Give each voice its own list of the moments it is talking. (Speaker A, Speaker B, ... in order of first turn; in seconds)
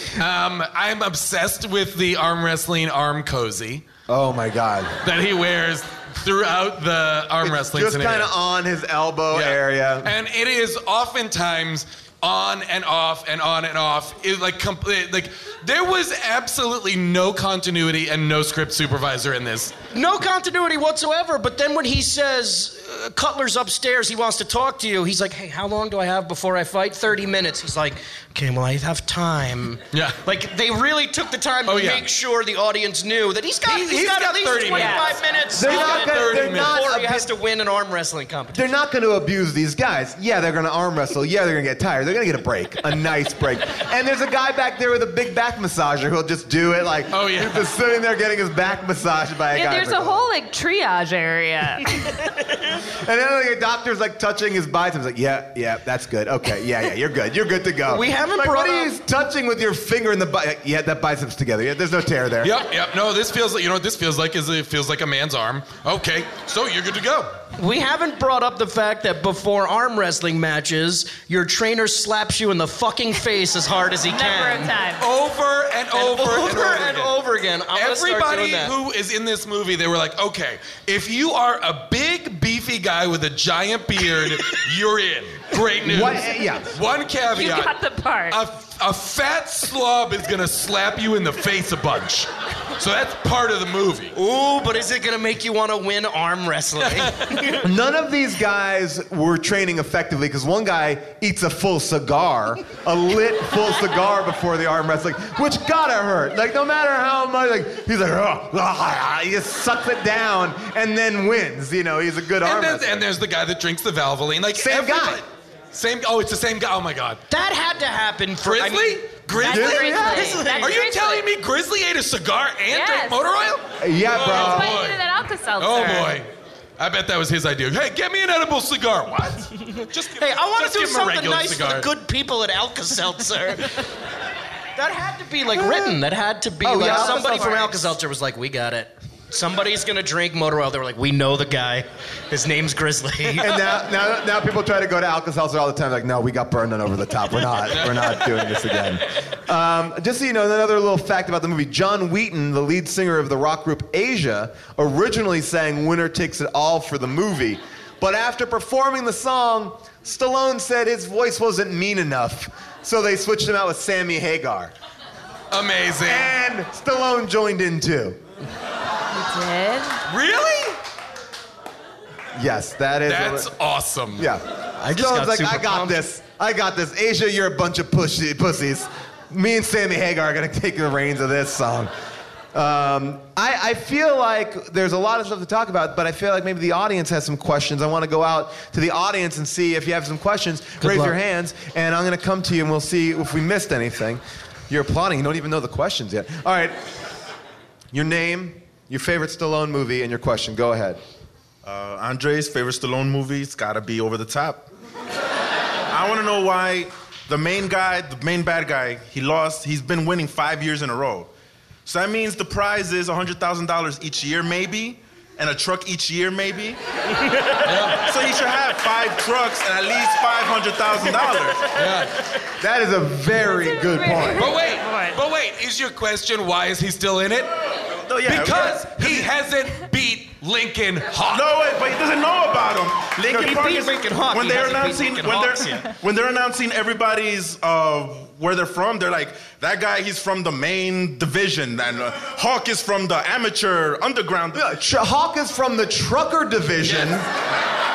Speaker A: 0.1-3.8, 5.0-8.3, 9.3-19.7, 29.9-30.2, 31.6-32.0, 33.6-36.8, 47.1-47.7, 62.4-67.4, 75.0-77.1, 77.7-87.8, 88.3-94.1, 96.8-97.4, 112.4-117.2, 118.4-125.0, 125.6-131.9, 147.7-148.3, 165.5-166.3, 170.1-170.8, 173.1-174.3, 217.6-218.0, 221.7-222.1, 224.3-227.5, 228.2-231.5
Speaker B: 4.1-5.0, 7.4-10.1, 35.5-37.3, 38.5-50.2, 53.0-62.5, 85.8-86.7, 97.6-113.0, 114.5-115.2, 119.5-120.4, 123.8-124.8, 136.6-137.9, 143.4-164.7, 166.1-168.2, 172.3-173.5, 174.2-181.9, 182.5-196.8, 197.9-201.0, 222.6-224.4, 244.5-247.2
Speaker C: 19.9-38.6, 57.9-58.9, 67.6-74.7, 75.9-78.7, 94.1-97.6, 117.3-119.0, 120.1-120.7, 130.2-133.8, 134.8-143.5, 174.8-176.0, 190.8-191.1, 233.2-235.9
Speaker D: 34.7-35.0, 49.5-52.3, 74.1-75.0, 87.3-88.4, 119.3-121.2, 122.7-123.2, 124.2-126.2, 169.1-170.0, 223.4-225.2
Speaker E: 201.6-204.7, 205.9-211.3, 211.8-216.8, 218.0-221.7, 228.1-229.3, 231.3-244.7